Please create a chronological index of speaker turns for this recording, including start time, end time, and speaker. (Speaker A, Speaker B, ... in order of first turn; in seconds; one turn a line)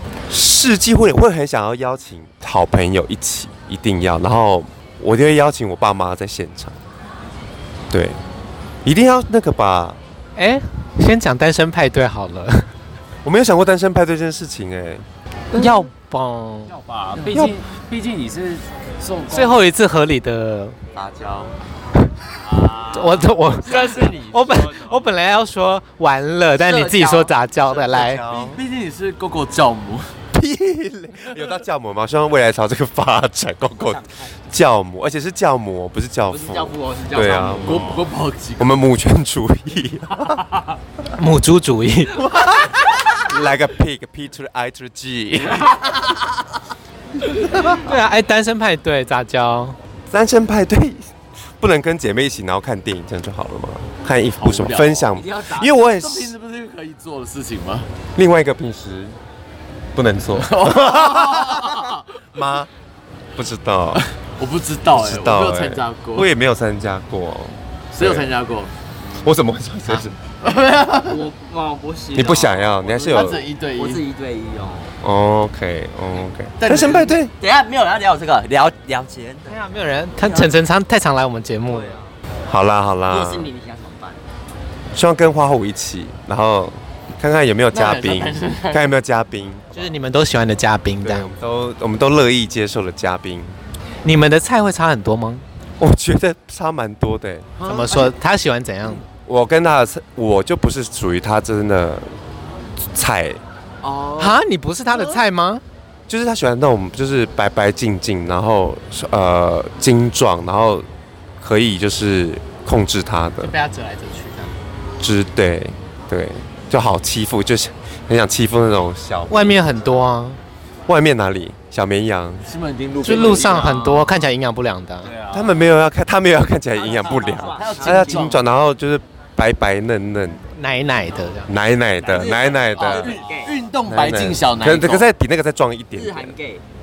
Speaker A: 0.3-6.8
Speaker A: 7.9-8.2
Speaker A: 8.8-10.0
Speaker B: 10.4-12.7
Speaker A: 13.2-15.1
Speaker B: 15.5-16.7
Speaker C: 16.7-19.6
Speaker B: 19.3-20.8
Speaker C: 22.4-25.1
Speaker B: 22.9-28.2
Speaker D: 26.6-27.3
Speaker A: 27.6-28.6
Speaker E: 28.3-30.1
Speaker A: 30.3-38.0
Speaker D: 33.8-34.3
Speaker D: 36.3-38.0
Speaker E: 37.6-38.8
Speaker A: 38.6-40.4
Speaker B: 41.2-42.5
Speaker A: 42.2-45.7
Speaker A: 47.4-47.8
Speaker B: 47.7-49.8
Speaker A: 50.1-51.1
Speaker A: 51.6-56.3
Speaker E: 54.4-57.9
Speaker D: 55.1-55.8
Speaker A: 58.2-59.2
Speaker A: 60.0-62.7
Speaker E: 60.3-62.0
Speaker A: 63.4-64.0
Speaker E: 64.0-66.3
Speaker A: 64.9-68.3
Speaker E: 67.9-68.7
Speaker A: 69.1-70.2
Speaker E: 70.4-71.2
Speaker D: 71.0-74.9
Speaker A: 72.1-73.4
Speaker E: 73.1-74.0
Speaker A: 75.0-77.3
Speaker E: 76.6-77.2
Speaker D: 77.4-79.6
Speaker B: 79.5-82.0
Speaker D: 80.2-80.5
Speaker D: 81.7-82.1
Speaker A: 82.5-83.5
Speaker D: 83.1-84.2
Speaker A: 84.9-89.9
Speaker E: 87.7-88.9
Speaker B: 89.7-91.3
Speaker A: 91.0-93.6
Speaker B: 94.0-95.5
Speaker A: 95.8-97.5
Speaker E: 97.6-98.1
Speaker B: 97.6-99.0
Speaker A: 99.3-102.2
Speaker A: 102.9-103.4
Speaker E: 103.8-104.3
Speaker B: 104.2-105.6
Speaker A: 106.1-110.9
Speaker A: 111.4-113.5
Speaker B: 113.4-114.6
Speaker A: 115.0-119.8
Speaker B: 119.3-120.4
Speaker A: 120.9-122.5
Speaker E: 122.5-124.2
Speaker B: 123.0-125.1
Speaker C: 125.0-125.6
Speaker A: 125.3-130.5
Speaker D: 126.8-128.4
Speaker E: 127.3-128.4
Speaker B: 130.6-131.5
Speaker A: 131.5-133.2
Speaker D: 132.0-133.6
Speaker E: 132.7-135.1
Speaker A: 133.9-136.4
Speaker D: 135.9-136.6